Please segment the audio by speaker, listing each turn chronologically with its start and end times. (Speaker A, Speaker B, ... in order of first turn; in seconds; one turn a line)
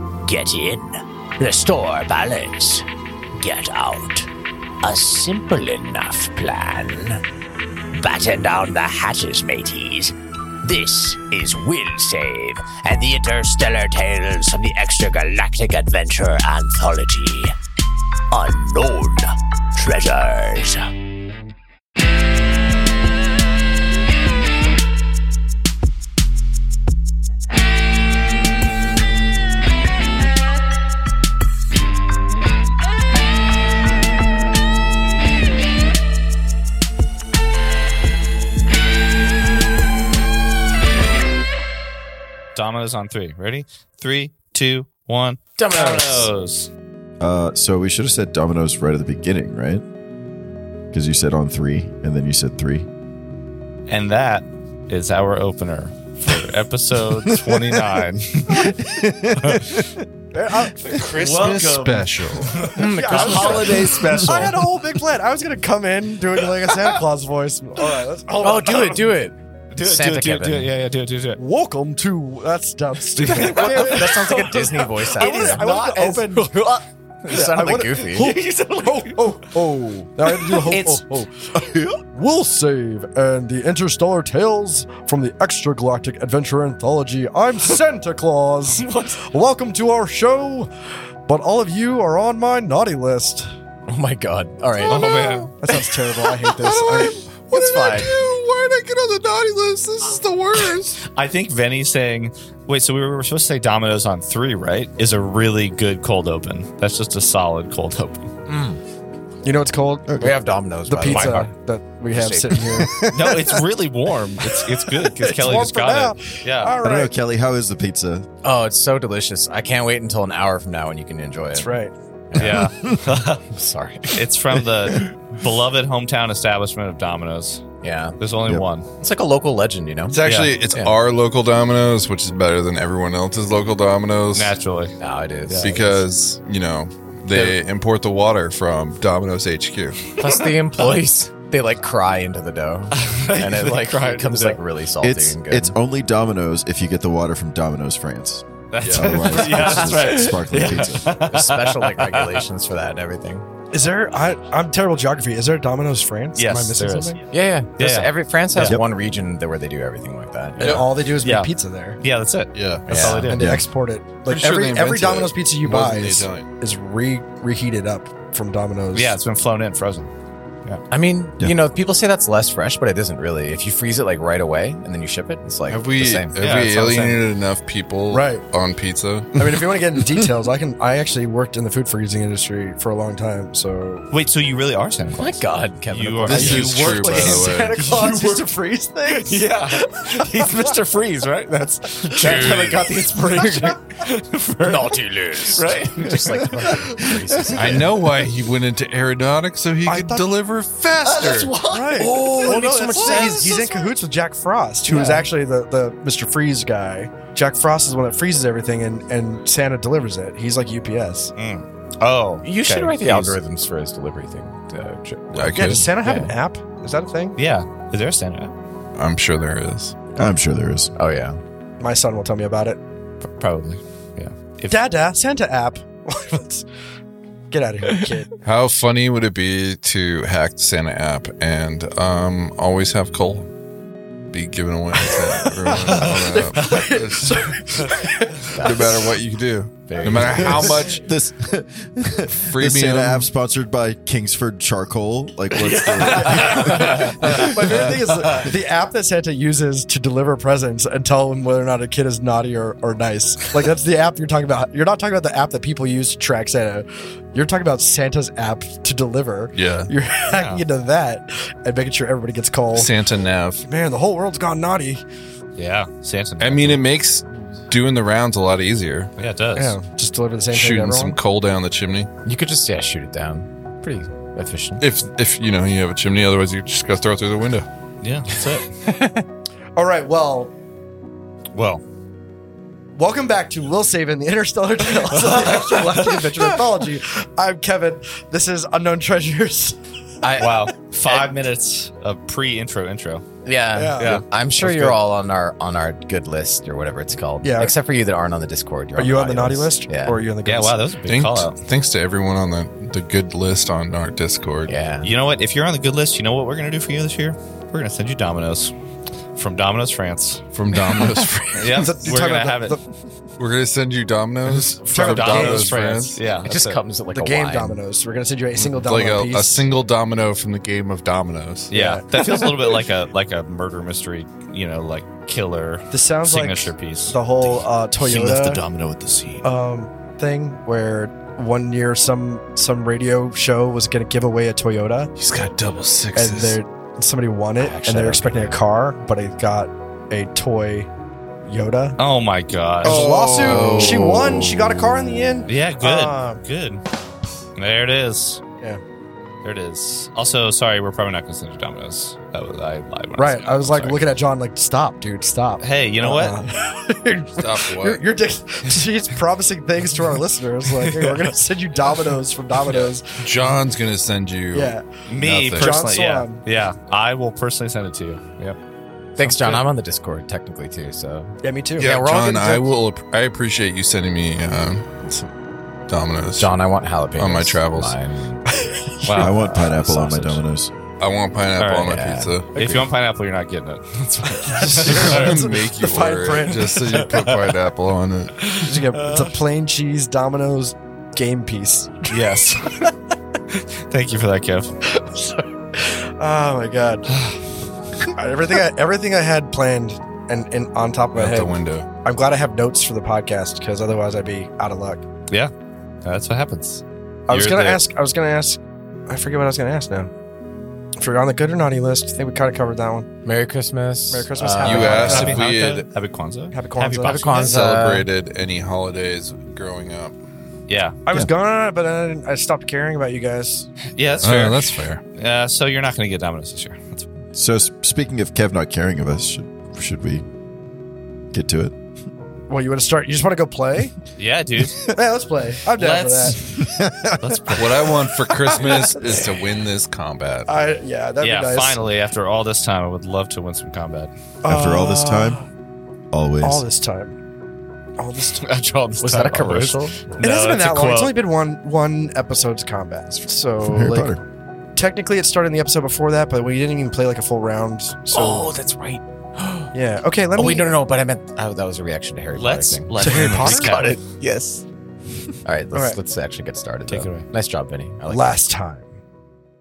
Speaker A: 0.2-4.3
Speaker A: 4.8-7.2
Speaker A: 7.9-17.5
Speaker A: 18.3-20.8
Speaker B: 42.5-46.7
Speaker C: 45.6-46.3
Speaker D: 47.2-49.8
Speaker D: 50.9-52.9
Speaker B: 53.9-59.8
Speaker D: 57.4-58.0
Speaker D: 58.5-60.0
Speaker E: 60.3-61.4
Speaker B: 60.8-64.5
Speaker F: 60.9-64.2
Speaker C: 62.7-64.4
Speaker E: 62.8-69.1
Speaker C: 68.4-70.7
Speaker B: 69.7-71.4
Speaker E: 71.4-81.3
Speaker B: 73.2-79.3
Speaker C: 73.2-75.7
Speaker C: 77.2-78.3
Speaker B: 80.4-81.0
Speaker D: 81.5-82.0
Speaker E: 82.1-90.7
Speaker B: 88.7-89.3
Speaker E: 91.2-93.5
Speaker C: 93.9-95.0
Speaker F: 94.8-101.0
Speaker B: 94.8-95.5
Speaker E: 95.6-97.2
Speaker C: 97.5-98.1
Speaker B: 101.1-108.3
Speaker C: 108.5-108.8
Speaker E: 109.4-110.3
Speaker D: 110.1-110.3
Speaker C: 110.2-111.5
Speaker E: 110.8-113.0
Speaker C: 112.1-112.9
Speaker D: 112.7-113.6
Speaker B: 113.1-116.7
Speaker E: 115.0-117.1
Speaker D: 116.8-118.3
Speaker C: 118.4-121.7
Speaker E: 121.5-121.9
Speaker C: 122.3-125.0
Speaker B: 122.4-123.4
Speaker B: 124.1-127.6
Speaker C: 127.8-128.2
Speaker B: 128.2-128.9
Speaker C: 129.0-130.9
Speaker F: 130.1-134.5
Speaker B: 130.2-130.6
Speaker B: 134.3-134.9
Speaker C: 135.0-135.7
Speaker B: 135.4-136.0
Speaker F: 135.6-140.1
Speaker C: 140.2-145.7
Speaker B: 142.9-144.6
Speaker D: 145.0-151.1
Speaker B: 148.7-152.4
Speaker F: 148.8-149.5
Speaker C: 149.5-153.4
Speaker E: 153.7-157.2
Speaker B: 156.3-157.2
Speaker C: 157.3-160.8
Speaker B: 157.8-158.8
Speaker D: 158.6-158.8
Speaker E: 160.6-162.0
Speaker F: 160.6-160.9
Speaker B: 160.7-163.5
Speaker F: 162.5-163.1
Speaker C: 162.9-163.4
Speaker E: 163.3-169.2
Speaker D: 163.3-163.7
Speaker F: 164.2-166.5
Speaker B: 168.9-170.1
Speaker C: 170.9-176.3
Speaker F: 175.7-179.6
Speaker B: 176.4-177.2
Speaker E: 178.1-178.4
Speaker E: 179.4-184.1
Speaker B: 184.1-188.4
Speaker C: 185.2-187.3
Speaker F: 186.2-187.9
Speaker E: 186.4-189.8
Speaker B: 189.1-196.5
Speaker F: 192.2-192.9
Speaker C: 192.2-193.8
Speaker C: 194.6-198.1
Speaker D: 196.9-197.6
Speaker F: 197.5-201.6
Speaker E: 199.8-200.3
Speaker B: 201.0-203.6
Speaker E: 201.6-211.3
Speaker F: 202.2-202.6
Speaker F: 203.2-203.7
Speaker C: 204.8-205.3
Speaker B: 211.3-213.4
Speaker C: 212.4-216.3
Speaker F: 215.3-215.9
Speaker E: 215.5-217.4
Speaker B: 217.3-218.5
Speaker F: 218.9-220.0
Speaker D: 220.2-220.9
Speaker C: 220.9-221.4
Speaker E: 221.8-222.8
Speaker B: 223.2-224.8
Speaker E: 224.7-226.6
Speaker E: 227.5-228.3
Speaker F: 228.4-233.5
Speaker F: 234.3-237.4
Speaker E: 235.3-238.5
Speaker C: 238.5-239.1
Speaker F: 238.5-241.1
Speaker C: 239.9-240.9
Speaker D: 240.3-248.5
Speaker F: 242.5-243.3
Speaker B: 245.7-247.1
Speaker E: 246.4-262.9
Speaker F: 259.5-259.9
Speaker B: 260.3-260.6
Speaker F: 262.7-263.7
Speaker E: 263.6-265.0
Speaker B: 265.6-266.8
Speaker F: 266.4-269.1
Speaker B: 269.2-269.8
Speaker E: 269.5-271.2
Speaker F: 270.5-272.1
Speaker C: 272.2-274.8
Speaker F: 274.8-277.7
Speaker B: 278.0-278.8
Speaker C: 278.8-279.2
Speaker E: 279.8-280.5
Speaker B: 281.5-281.8
Speaker E: 282.9-289.8
Speaker C: 290.2-291.3
Speaker B: 290.4-293.2
Speaker C: 293.4-300.2
Speaker E: 293.7-294.2
Speaker B: 294.0-294.9
Speaker E: 297.4-297.7
Speaker E: 298.9-300.9
Speaker B: 300.4-301.6
Speaker F: 301.0-304.7
Speaker C: 304.7-305.1
Speaker B: 305.0-308.7
Speaker B: 309.4-310.4
Speaker F: 310.5-312.0
Speaker B: 311.5-312.8
Speaker E: 311.7-312.8
Speaker F: 313.4-316.2
Speaker E: 314.6-315.8
Speaker B: 314.9-316.8
Speaker C: 316.4-317.8
Speaker E: 317.1-319.7
Speaker F: 318.6-321.7
Speaker B: 321.7-329.5
Speaker E: 321.7-322.9
Speaker E: 325.9-328.6
Speaker E: 329.4-335.1
Speaker F: 335.2-336.6
Speaker E: 336.1-340.9
Speaker C: 337.6-338.4
Speaker E: 341.4-342.0
Speaker B: 342.0-343.7
Speaker F: 342.8-344.7
Speaker E: 342.8-346.4
Speaker B: 345.5-346.8
Speaker B: 347.6-348.4
Speaker B: 349.4-354.0
Speaker E: 353.2-363.2
Speaker B: 355.6-356.4
Speaker F: 357.4-358.0
Speaker B: 360.7-361.3
Speaker F: 363.1-365.9
Speaker E: 364.5-364.8
Speaker B: 365.1-368.6
Speaker E: 365.6-366.4
Speaker C: 369.2-372.6
Speaker B: 369.2-369.6
Speaker E: 371.4-372.0
Speaker F: 371.8-375.2
Speaker F: 375.9-376.6
Speaker C: 376.4-378.4
Speaker F: 377.1-378.0
Speaker E: 378.6-379.4
Speaker B: 379.0-379.3
Speaker D: 379.1-380.7
Speaker C: 379.3-380.4
Speaker F: 381.0-382.8
Speaker B: 381.6-385.3
Speaker C: 381.8-382.4
Speaker E: 384.4-387.3
Speaker F: 384.7-388.5
Speaker B: 388.4-389.3
Speaker E: 388.5-392.9
Speaker B: 392.1-392.9
Speaker B: 393.5-394.7
Speaker E: 394.9-397.1
Speaker E: 398.0-405.0
Speaker F: 401.1-401.9
Speaker B: 406.0-407.8
Speaker E: 407.3-410.1
Speaker E: 411.0-413.1
Speaker C: 413.2-415.8
Speaker E: 414.1-415.4
Speaker F: 414.6-415.9
Speaker B: 414.8-417.3
Speaker E: 416.5-417.8
Speaker C: 416.8-418.1
Speaker F: 417.3-420.2
Speaker B: 420.7-421.0
Speaker E: 421.1-423.7
Speaker B: 423.9-427.1
Speaker F: 424.2-425.0
Speaker D: 427.3-430.2
Speaker D: 431.3-431.7
Speaker E: 432.5-433.9
Speaker B: 434.2-434.9
Speaker E: 434.8-436.4
Speaker B: 435.8-436.5
Speaker D: 436.4-437.8
Speaker B: 437.2-437.9
Speaker F: 437.6-440.5
Speaker E: 438.7-439.3
Speaker E: 440.5-441.8
Speaker B: 441.2-444.1
Speaker E: 444.4-445.4
Speaker D: 444.4-445.4
Speaker D: 446.1-446.6
Speaker E: 446.4-447.1
Speaker E: 448.0-448.5
Speaker B: 448.4-451.2
Speaker C: 449.0-450.1
Speaker E: 450.2-454.1
Speaker D: 453.6-454.2
Speaker E: 454.8-458.5
Speaker C: 458.1-459.7
Speaker E: 459.7-460.7
Speaker C: 460.3-464.6
Speaker B: 462.4-464.0
Speaker E: 463.0-463.9
Speaker C: 465.4-468.4
Speaker E: 465.7-466.0
Speaker B: 466.9-467.2
Speaker E: 468.1-468.9